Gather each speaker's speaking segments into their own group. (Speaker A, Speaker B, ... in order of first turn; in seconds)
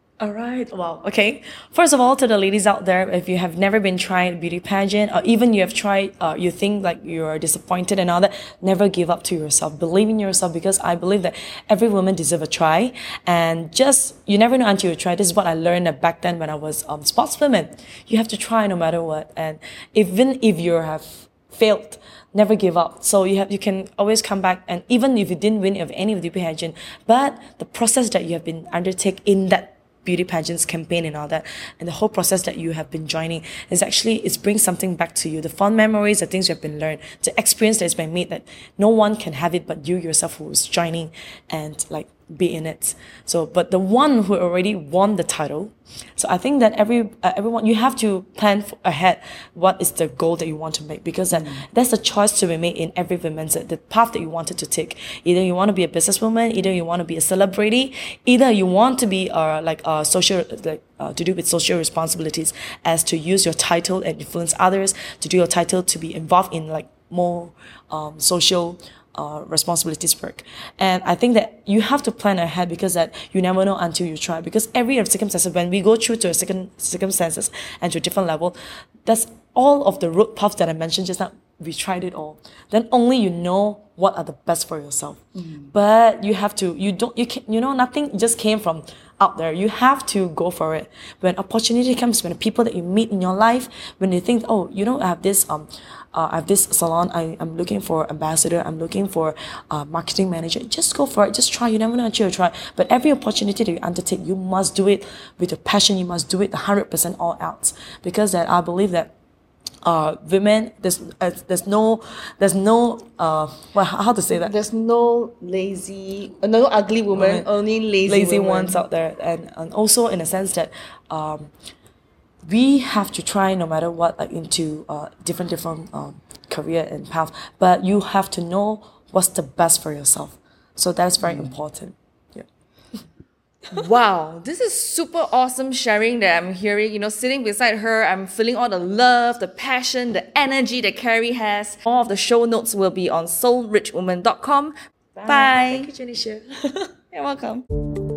Speaker A: 0.2-109.1, 109.8-114.5, 117.1-117.5, 118.0-121.5, 122.5-132.4, 145.2-146.9
Speaker B: 51.3-51.6, 85.3-85.7, 114.4-118.8, 131.2-131.5, 133.7-144.7, 145.2-145.9, 147.1-147.7